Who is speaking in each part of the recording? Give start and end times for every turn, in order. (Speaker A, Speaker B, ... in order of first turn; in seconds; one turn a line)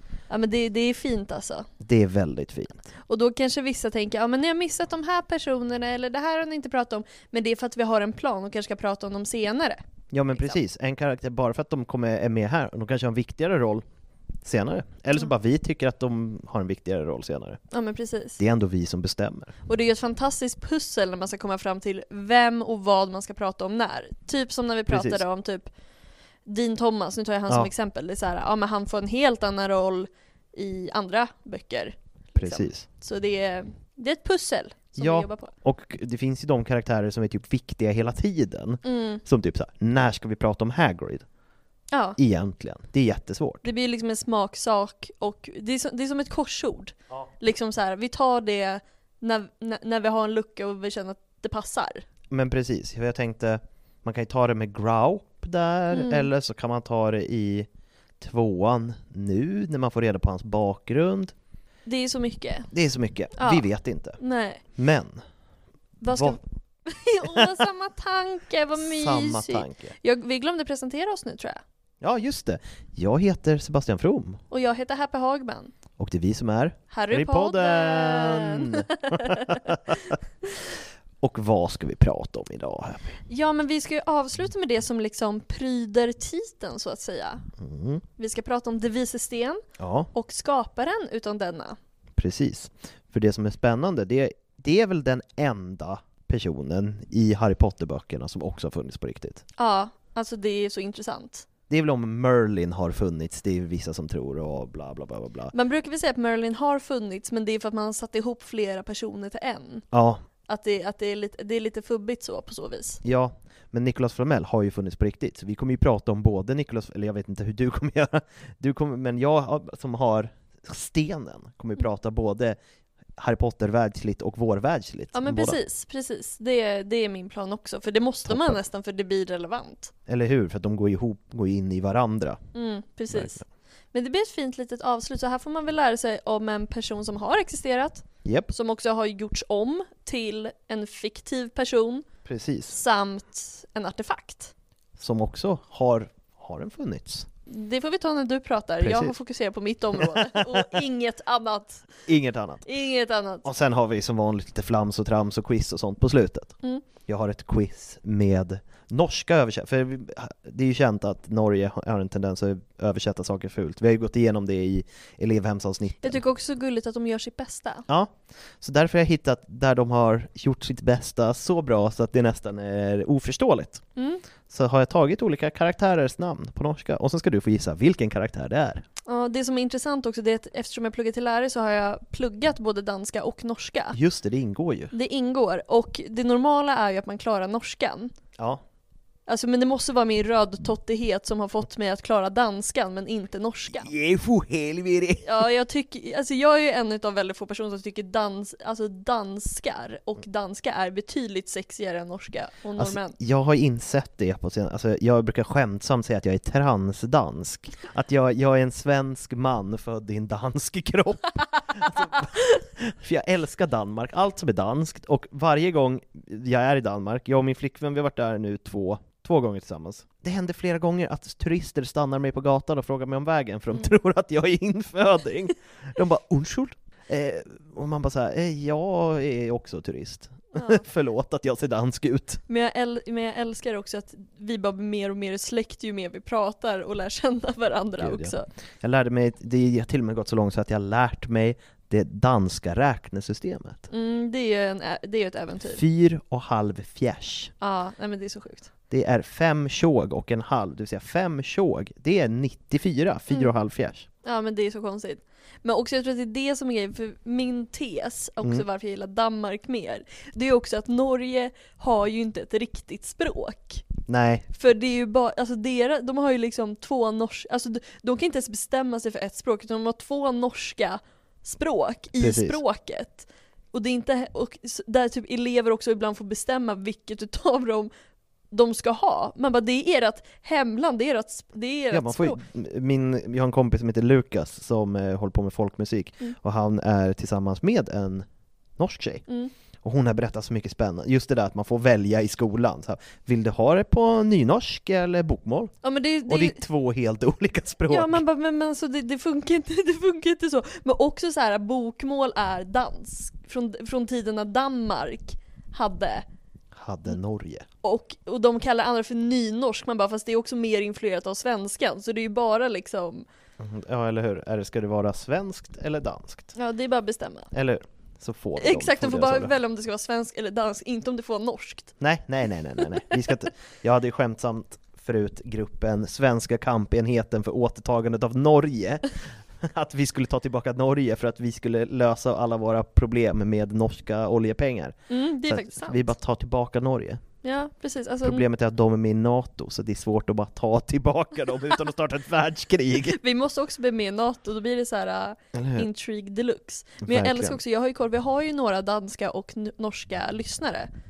Speaker A: 0.3-1.7
Speaker B: 1.8-2.9
Speaker A: 3.1-9.8
Speaker B: 10.1-13.8
Speaker A: 10.3-10.6
Speaker B: 14.4-17.6
Speaker A: 17.7-18.4
Speaker B: 18.4-19.5
Speaker A: 19.7-25.7
Speaker B: 24.9-25.2
Speaker A: 26.5-35.5
Speaker B: 32.4-32.9
Speaker B: 35.0-41.2
Speaker A: 38.8-39.2
Speaker A: 41.9-42.2
Speaker B: 42.2-43.6
Speaker A: 43.6-52.0
Speaker B: 52.3-57.7
Speaker A: 55.9-56.3
Speaker B: 58.2-61.3
Speaker A: 61.9-62.7
Speaker B: 62.7-64.2
Speaker A: 63.4-63.6
Speaker A: 64.2-64.6
Speaker B: 64.8-65.2
Speaker A: 66.0-71.6
Speaker B: 66.1-66.4
Speaker B: 68.8-70.0
Speaker B: 72.0-74.4
Speaker A: 74.5-75.7
Speaker B: 76.0-80.2
Speaker A: 76.9-80.2
Speaker B: 81.2-83.2
Speaker A: 83.3-87.5
Speaker B: 87.6-88.0
Speaker A: 88.2-91.8
Speaker B: 89.8-90.1
Speaker B: 92.2-99.4
Speaker A: 99.6-101.5
Speaker B: 101.7-105.5
Speaker A: 105.5-109.9
Speaker B: 109.9-110.2
Speaker A: 110.5-113.0
Speaker B: 113.0-122.6
Speaker B: 123.2-125.6
Speaker A: 125.1-129.9
Speaker B: 128.2-128.6
Speaker B: 130.1-132.4
Speaker A: 132.6-133.4
Speaker B: 133.1-133.4
Speaker A: 133.9-142.1
Speaker B: 138.2-138.5
Speaker B: 142.3-142.8
Speaker A: 142.7-144.5
Speaker B: 145.0-147.3
Speaker A: 147.5-151.9
Speaker B: 148.8-149.1
Speaker B: 149.9-150.8
Speaker B: 152.1-152.7
Speaker A: 152.7-153.5
Speaker B: 153.4-156.6
Speaker B: 157.1-166.2
Speaker A: 166.0-167.9
Speaker B: 167.9-173.8
Speaker A: 174.0-174.2
Speaker B: 174.5-178.8
Speaker A: 179.1-184.0
Speaker B: 183.9-184.9
Speaker A: 184.9-188.1
Speaker B: 188.4-188.6
Speaker A: 189.3-193.9
Speaker B: 193.7-195.5
Speaker A: 195.2-203.2
Speaker B: 202.8-232.4
Speaker A: 230.5-230.8
Speaker A: 232.5-238.5
Speaker B: 238.0-243.9
Speaker A: 243.9-245.8
Speaker B: 245.7-247.5
Speaker A: 247.6-248.7
Speaker B: 248.9-254.1
Speaker A: 254.2-263.9
Speaker B: 264.1-264.5
Speaker A: 264.6-277.9
Speaker B: 272.2-272.6
Speaker A: 278.5-282.4
Speaker B: 281.9-288.3
Speaker B: 288.8-289.2
Speaker B: 289.8-295.7
Speaker A: 295.8-296.6
Speaker B: 296.3-298.2
Speaker A: 297.9-306.3
Speaker B: 306.8-307.7
Speaker A: 307.8-313.2
Speaker B: 313.6-316.5
Speaker A: 316.6-317.5
Speaker B: 317.5-319.5
Speaker A: 318.6-321.9
Speaker B: 322.0-329.1
Speaker A: 323.0-323.3
Speaker B: 329.6-337.2
Speaker A: 335.1-336.1
Speaker A: 337.4-338.4
Speaker B: 338.2-343.2
Speaker A: 343.1-350.9
Speaker B: 345.5-345.9
Speaker B: 347.0-347.6